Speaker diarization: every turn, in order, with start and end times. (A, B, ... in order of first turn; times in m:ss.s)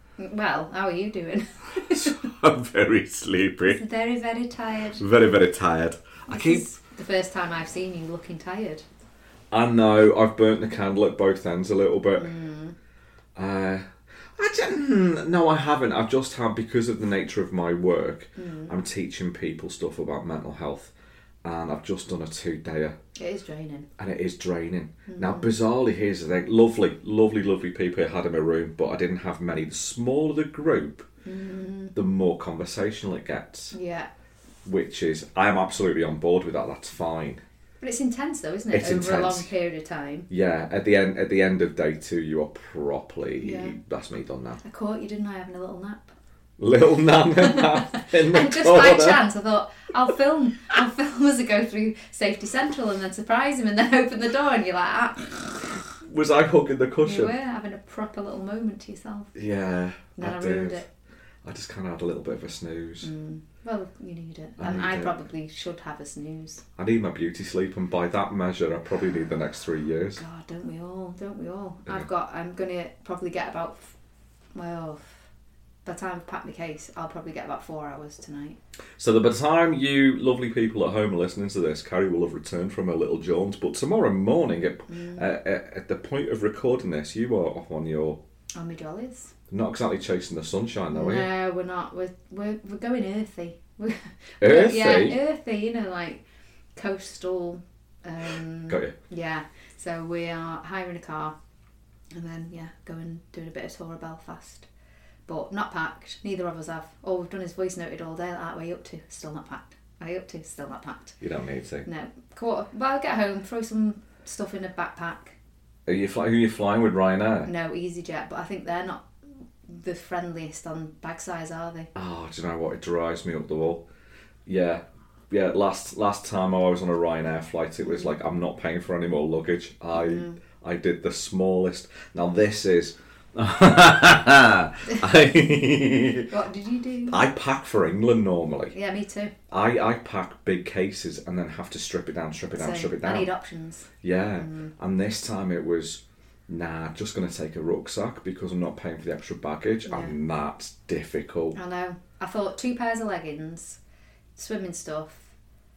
0:00.2-0:02.2 A
0:01.9-0:03.8 B
0:03.7-0:05.0 A
0:05.0-0:06.6 B
0:06.3-0:08.8 A
0:09.5-0:12.3 B
0:12.2-0:12.8 A
0:13.3-0:13.8 B
0:14.4-0:20.9 B
0:18.4-0:18.8 A
0:21.4-0:22.9 B
0:23.2-0:23.9 A
0:24.0-0:31.0 B
0:25.1-0:25.5 A
0:31.2-0:32.0 A
0:31.9-0:33.7 B
0:33.7-0:34.1 A
0:34.6-0:37.4 B
0:37.8-0:40.3 A
0:38.7-0:39.5 B
0:40.3-0:44.6 B
0:43.4-0:43.7 A
0:44.6-0:46.1 A
0:46.6-0:49.2 B
0:47.4-0:55.7 A
0:56.0-0:57.3 B
0:57.0-0:59.3 A
0:59.3-1:00.8 B
1:00.2-1:00.9 A
1:01.4-1:03.1 B
1:03.0-1:06.6 A
1:04.6-1:05.1 B
1:06.8-1:10.2 B
1:10.2-1:13.9 A
1:14.5-1:15.2 A
1:15.8-1:18.6 A
1:19.0-1:28.2 B
1:24.9-1:25.2 A
1:28.5-1:29.3 A
1:29.5-1:31.3 B
1:30.9-1:36.2 A
1:34.4-1:35.2 B
1:36.8-1:41.3 A
1:38.7-1:38.9 B
1:42.1-1:44.7 A
1:45.3-1:51.2 A
1:51.2-1:51.8 B
1:51.8-1:55.4 A
1:55.8-1:57.5 B
1:57.4-1:59.1 A
1:59.6-2:01.9 A
2:01.9-2:03.8 B
2:04.4-2:16.3 B
2:07.9-2:08.1 A
2:09.9-2:10.4 A
2:16.3-2:17.2 A
2:17.1-2:18.7 B
2:18.7-2:19.3 A
2:19.5-2:23.3 B
2:22.5-2:24.7 A
2:24.0-2:31.6 B
2:29.8-2:30.1 A
2:31.5-2:33.8 A
2:34.4-2:35.3 A